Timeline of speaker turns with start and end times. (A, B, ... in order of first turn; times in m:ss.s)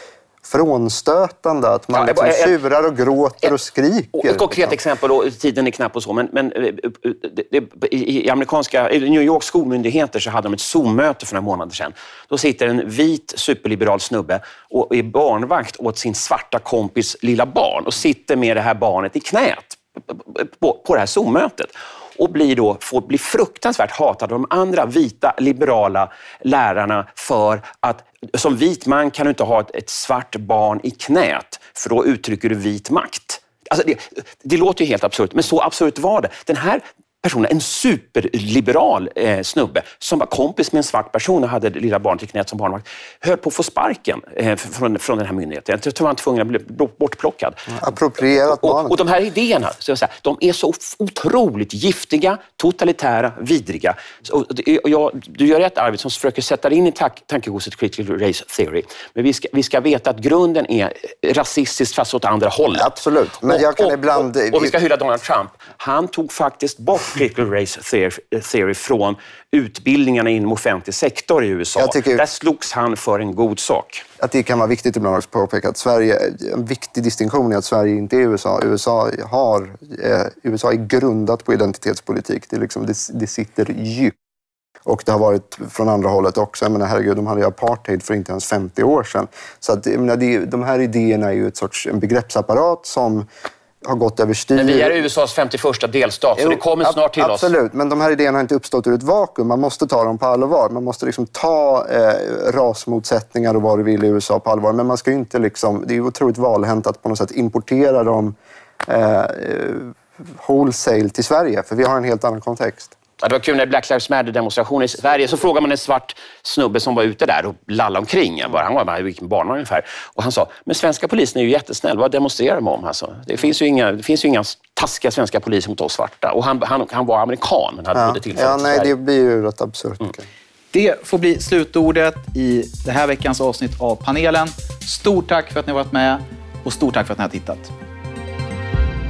0:00.4-0:04.8 A
0:01.9-0:02.6 B
0:04.2-0:47.8 B
0:47.8-0:49.0 A
0:48.4-1:02.9 B
1:02.8-1:04.7 A
1:03.5-1:14.0 B
1:11.8-1:12.2 A
1:14.2-1:24.1 A
1:24.9-1:33.3 A
1:33.8-1:35.0 A
1:34.6-1:37.5 B
1:36.4-1:48.4 A
1:48.9-1:52.9 A
1:53.2-2:08.9 B
2:08.0-2:10.2 A
2:10.7-2:17.7 C